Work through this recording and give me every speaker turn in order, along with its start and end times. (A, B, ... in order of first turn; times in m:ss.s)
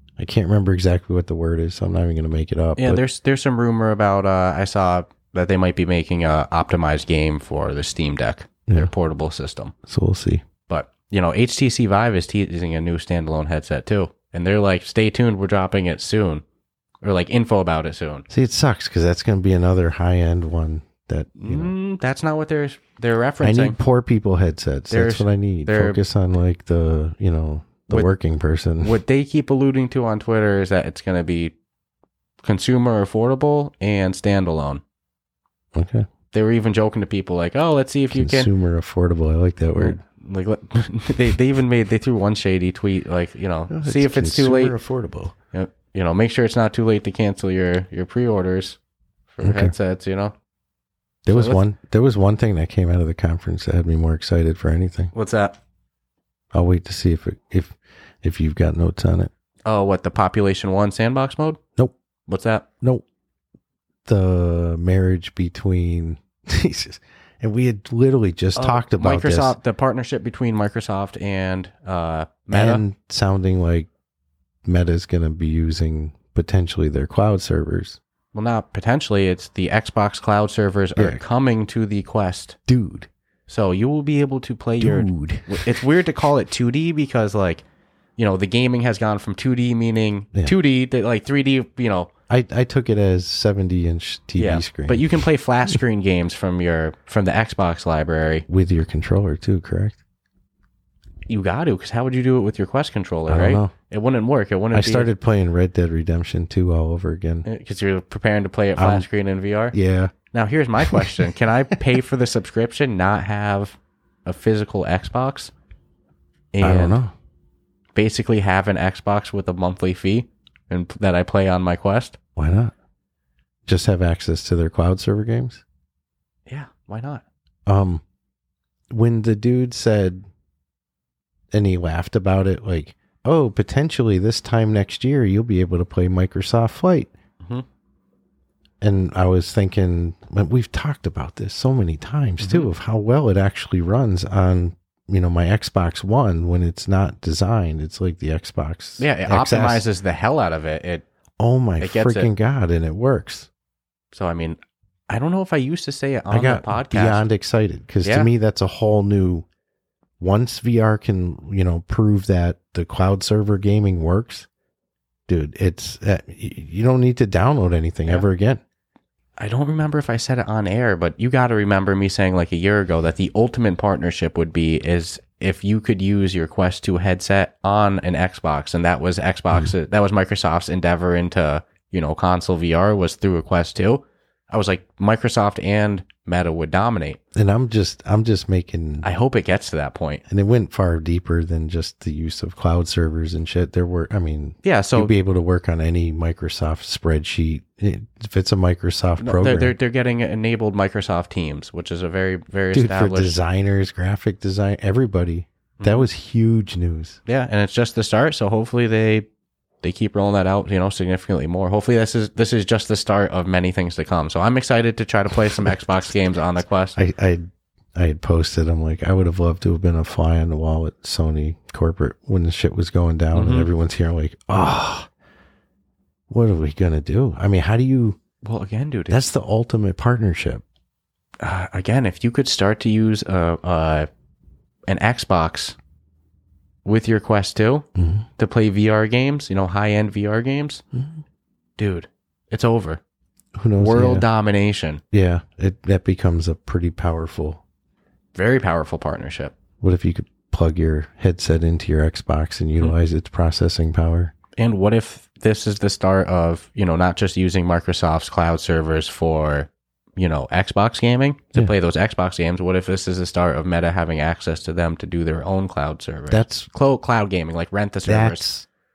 0:00.2-0:03.0 A
0:02.8-0:09.7 B
0:09.8-0:10.4 A
0:10.7-0:16.4 B
0:17.0-0:18.2 B
0:18.3-0:21.7 A
0:21.4-0:23.8 B
0:23.4-0:29.0 A
0:24.9-0:26.0 B
0:28.8-0:31.5 B
0:32.4-0:34.8 B
0:35.7-0:36.1 A
0:36.3-0:38.5 B
0:38.1-0:40.0 A
0:39.8-0:44.7 B
0:43.7-0:45.3 A
0:45.5-0:48.8 B
0:49.3-0:50.3 B
0:49.4-0:49.7 A
0:51.2-0:55.1 A
0:51.3-0:51.6 B
0:55.1-0:55.6 B
0:56.5-0:59.3 A
0:59.6-1:01.6 B
1:02.3-1:02.6 B
1:04.0-1:09.6 A
1:08.5-1:12.8 B
1:12.5-1:13.9 A
1:14.6-1:18.0 A
1:18.3-1:22.6 B
1:21.0-1:21.2 A
1:22.7-1:23.1 A
1:23.5-1:27.6 B
1:24.8-1:25.8 A
1:28.2-1:32.1 B
1:32.3-1:35.0 A
1:34.4-1:38.4 B
1:38.5-1:40.0 A
1:41.3-1:45.1 B
1:43.3-1:43.7 A
1:44.7-1:47.4 A
1:47.4-1:49.8 B
1:48.8-1:49.1 A
1:49.7-1:50.1 A
1:50.3-1:55.5 B
1:50.8-1:51.3 A
1:56.5-1:57.0 B
1:56.6-1:57.1 A
1:57.9-2:02.2 B
2:02.4-2:02.7 A
2:03.6-2:05.6 A
2:06.5-2:07.2 B
2:07.6-2:08.0 A
2:08.9-2:10.2 A
2:11.5-2:17.1 A
2:18.8-2:29.9 A
2:22.4-2:22.7 B
2:29.0-2:31.0 B
2:31.4-2:33.5 A
2:31.8-2:32.3 B
2:34.1-2:34.6 B
2:35.1-2:37.2 B
2:36.3-2:39.4 A
2:38.0-2:38.3 B
2:40.2-2:44.5 A
2:45.3-2:48.6 A
2:49.4-3:07.2 B
3:07.3-3:09.1 A
3:09.0-3:10.2 B
3:10.3-3:19.7 A
3:14.6-3:15.1 B
3:19.2-3:23.3 B
3:22.7-3:27.2 A
3:25.8-3:26.1 B
3:27.2-3:29.3 B
3:29.8-3:37.0 B
3:37.0-3:45.1 A
3:43.3-3:43.7 B
3:46.3-3:48.2 A
3:48.4-3:49.3 B
3:49.1-3:50.6 A
3:51.4-3:54.1 B
3:54.9-3:55.8 B
3:56.8-3:57.9 B
3:57.9-3:58.2 A
3:58.4-4:00.8 B
4:00.9-4:01.2 A
4:01.8-4:03.0 B
4:03.5-4:04.3 A
4:03.8-4:05.0 B
4:05.1-4:07.6 A
4:08.3-4:09.5 B
4:09.8-4:14.3 A
4:14.6-4:28.5 B
4:26.3-4:26.7 A
4:28.0-4:28.6 A